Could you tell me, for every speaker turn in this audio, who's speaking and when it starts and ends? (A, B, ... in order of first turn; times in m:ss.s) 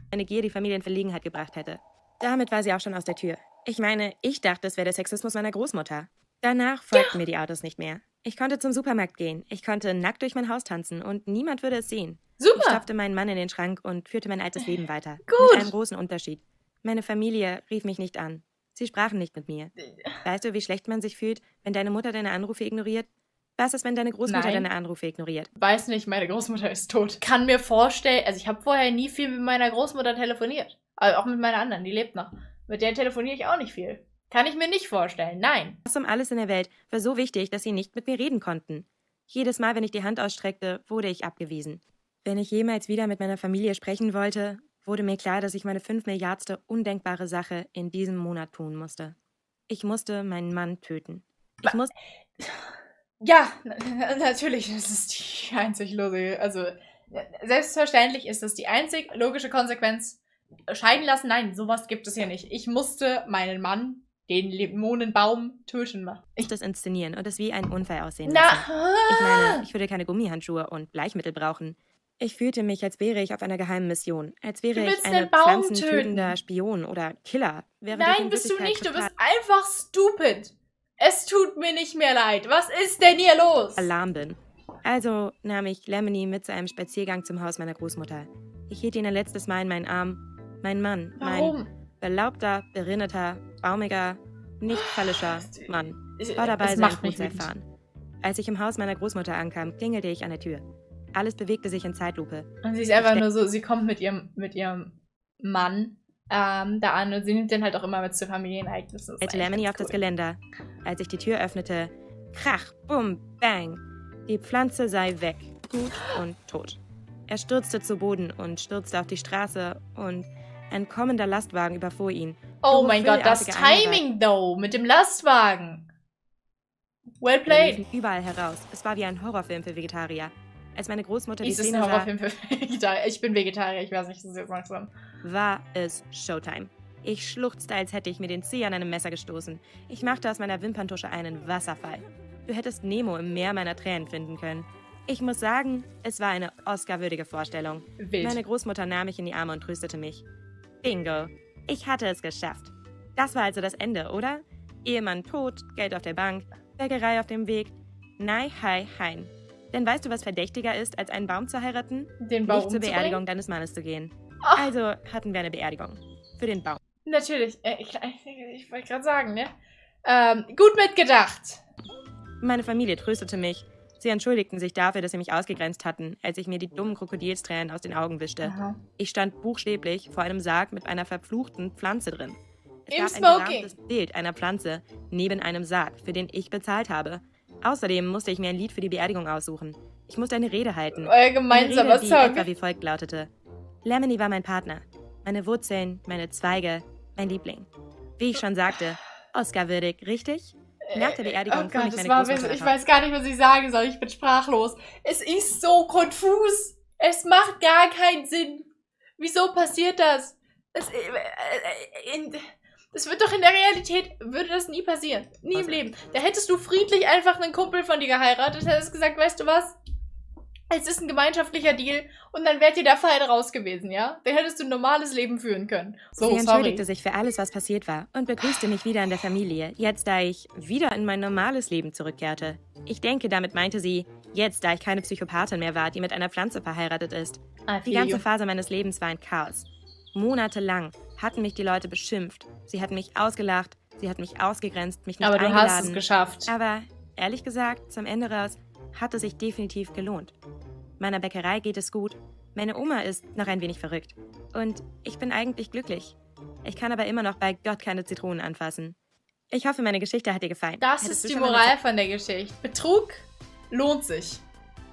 0:00.1-0:25.5 A
0:06.9-0:07.2 B
0:12.4-0:12.8 B
0:15.2-0:15.7 B
0:19.8-0:20.2 B
0:24.2-0:24.7 B
0:25.6-0:35.8 B
0:35.8-0:49.1 A
0:49.7-0:51.9 A
0:52.4-1:06.5 B
1:06.4-1:19.1 A
1:08.2-1:09.6 B
1:14.7-1:16.3 B
1:17.9-1:23.9 B
1:23.8-1:37.6 A
1:31.2-1:31.7 B
1:34.7-1:37.5 B
1:38.2-1:43.2 A
1:42.6-1:50.0 B
1:49.2-2:04.0 A
2:02.6-2:05.8 B
2:07.2-2:07.8 B
2:07.5-2:12.1 A
2:11.4-2:14.9 B
2:15.2-2:30.2 A
2:28.0-2:28.4 B
2:30.8-2:46.8 A
2:42.2-2:43.2 B
2:44.4-2:44.7 B
2:47.0-2:49.5 B
2:50.0-2:51.6 B
2:52.4-3:13.3 A
2:58.4-2:58.8 B
3:02.9-3:03.7 B
3:11.0-3:12.5 B
3:13.8-3:22.8 A
3:20.9-3:39.7 B
3:35.5-3:35.8 A
3:40.7-3:46.8 B
3:46.2-4:10.3 A
3:57.7-3:58.2 B
4:05.2-4:06.5 B
4:11.0-4:19.0 A
4:19.5-4:21.7 A
4:20.8-4:24.4 B